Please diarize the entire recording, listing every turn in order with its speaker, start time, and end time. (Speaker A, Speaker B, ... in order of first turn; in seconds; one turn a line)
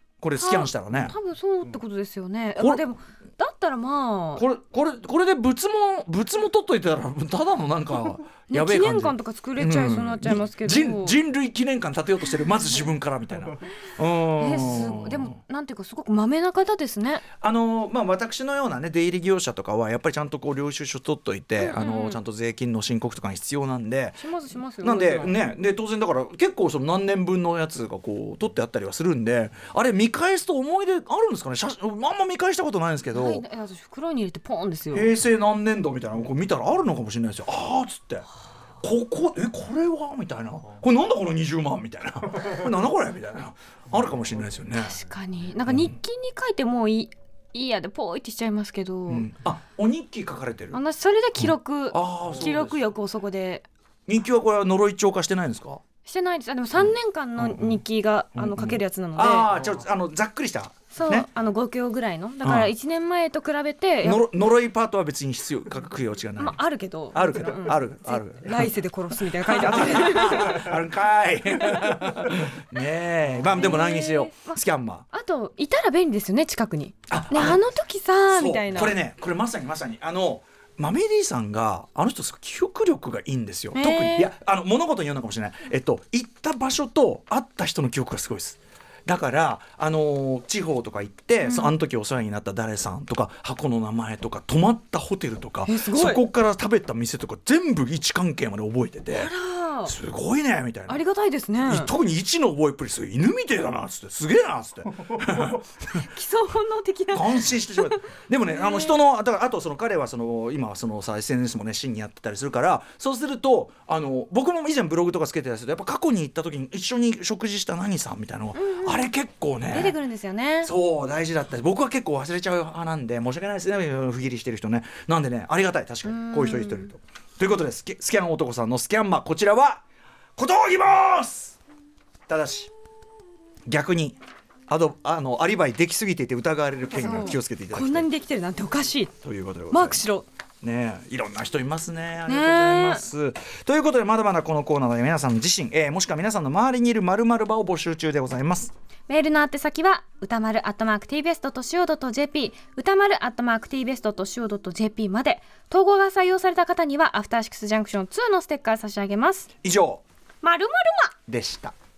Speaker A: 0.2-1.1
Speaker B: 0.4-4.4
Speaker A: 2.6-2.8
Speaker A: 4.3-15.3
Speaker B: 8.5-11.2
Speaker B: 14.4-17.2
Speaker A: 17.4-24.3
Speaker B: 21.6-22.2
Speaker B: 24.2-25.4
Speaker A: 24.8-33.4
Speaker B: 33.1-35.1
Speaker A: 34.9-38.2
Speaker A: 38.8-45.0
Speaker B: 44.8-49.3
Speaker A: 45.7-45.9
Speaker A: 49.1-50.8
Speaker B: 50.7-53.7
Speaker A: 51.4-52.9
Speaker A: 54.1-55.8
Speaker B: 56.0-59.5
Speaker A: 56.8-57.8
Speaker A: 58.3-61.3
Speaker B: 60.9-64.2
Speaker A: 62.4-62.7
Speaker A: 64.0-66.6
Speaker B: 66.4-70.7
Speaker A: 67.1-68.7
Speaker A: 69.4-75.0
Speaker B: 71.7-71.9
Speaker B: 73.5-74.6
Speaker B: 75.1-79.0
Speaker A: 77.1-77.6
Speaker A: 78.3-99.3
Speaker B: 83.7-84.3
Speaker B: 91.4-91.7
Speaker B: 95.7-96.2
Speaker B: 99.1-99.9
Speaker A: 99.8-101.0
Speaker B: 100.9-101.9
Speaker A: 101.6-105.7
Speaker B: 105.9-109.0
Speaker A: 107.1-120.0
Speaker B: 118.5-119.1
Speaker B: 119.7-120.7
Speaker A: 120.6-129.8
Speaker B: 126.0-126.9
Speaker A: 130.3-131.6
Speaker A: 132.3-132.7
Speaker A: 133.7-138.1
Speaker B: 137.0-139.1
Speaker A: 139.2-140.0
Speaker B: 139.7-140.2
Speaker A: 140.6-148.7
Speaker B: 142.3-143.1
Speaker B: 149.1-159.5
Speaker A: 159.6-160.0
Speaker B: 160.4-161.1
Speaker A: 161.3-161.7